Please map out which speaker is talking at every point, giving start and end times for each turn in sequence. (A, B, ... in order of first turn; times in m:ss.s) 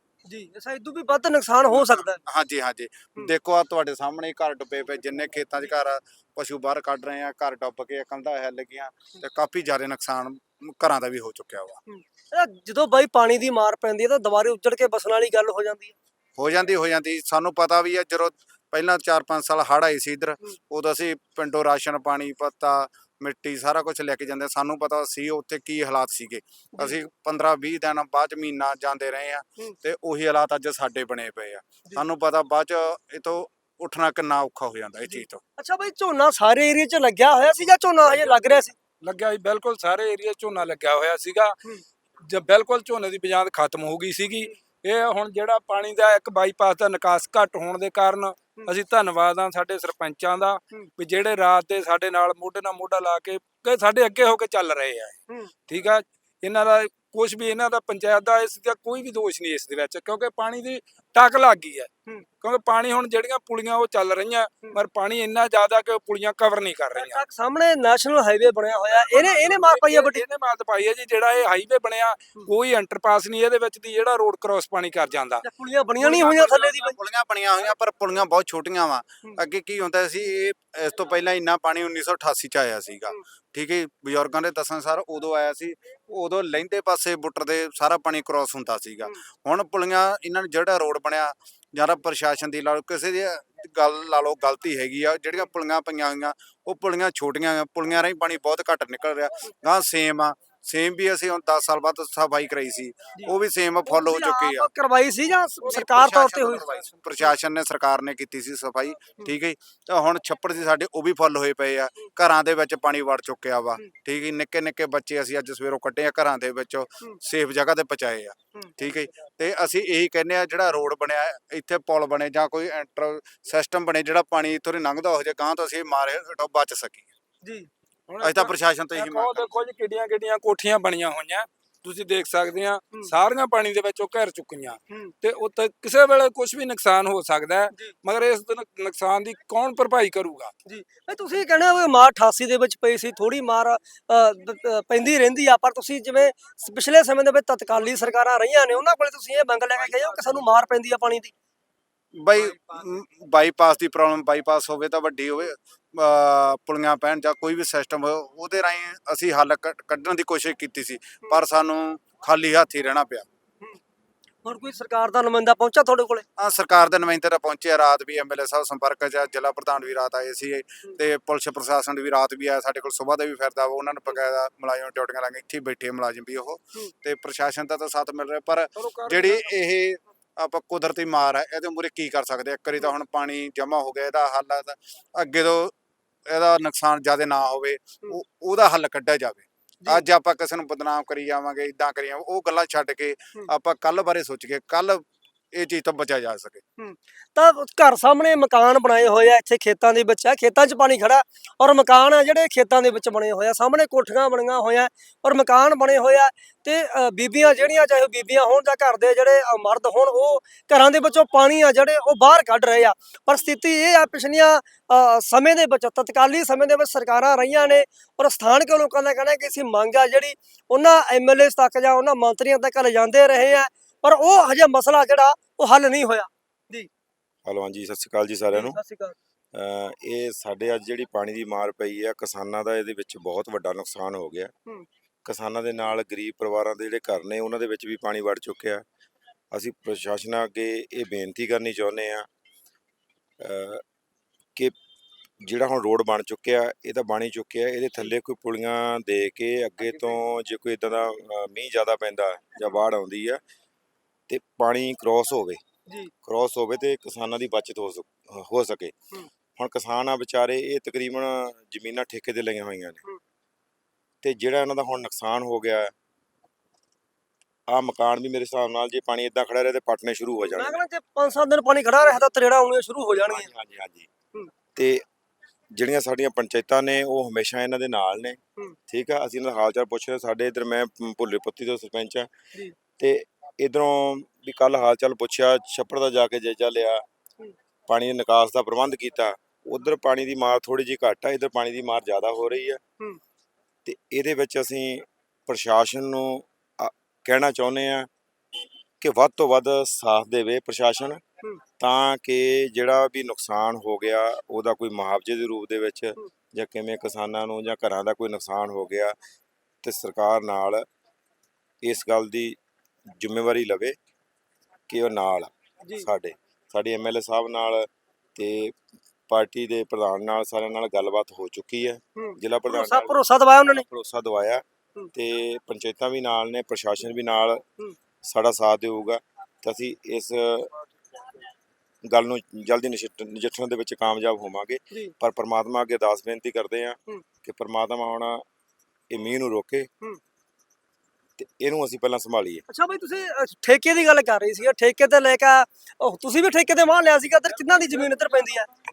0:00.2-0:02.2 A
0:01.7-0:11.8 B
0:11.9-0:15.9 A
0:16.4-0:35.4 B
0:35.1-0:38.8 A
0:39.0-0:41.6 C
0:42.3-0:55.2 C
0:55.7-1:01.9 C
1:02.4-1:07.2 C
1:06.9-1:10.2 A
1:08.9-1:15.4 C
1:15.4-1:17.0 A
1:16.0-1:44.7 B
1:43.9-1:47.3 A
1:45.6-2:07.1 B
2:07.4-2:07.7 A
2:08.1-2:20.5 C
2:08.2-2:09.5 B
2:20.6-2:31.3 A
2:32.2-2:43.2 B
2:44.4-2:46.2 A
2:46.4-3:05.7 B
2:58.8-2:59.6 C
3:06.3-3:16.6 B
3:16.8-3:46.9 A
3:47.4-3:48.8 D
3:48.5-3:49.1 A
3:49.5-3:54.5 D
3:55.2-3:58.8 D
3:59.5-4:02.3 D
4:03.4-4:03.8 D
4:05.4-4:13.4 D
4:14.3-4:15.6 D
4:16.2-4:18.9 D
4:19.6-4:23.0 D
4:24.2-4:25.9 D
4:27.7-4:30.8 D
4:30.4-4:33.5 A
4:33.2-4:34.1 D
4:34.8-4:35.0 D
4:35.7-4:42.3 D
4:43.0-4:47.0 D
4:47.9-4:52.8 D
4:53.8-4:58.1 D
4:59.0-5:01.2 D
5:01.8-5:09.2 D
5:09.8-5:10.9 D
5:11.8-5:12.6 D
5:13.2-5:14.0 D
5:14.9-5:18.8 D
5:19.3-5:24.6 D
5:22.2-5:23.8 A
5:25.1-5:27.6 D
5:28.2-5:30.7 D
5:32.1-5:38.4 D
5:39.1-5:39.9 D
5:41.4-5:42.6 D
5:42.7-5:48.7 A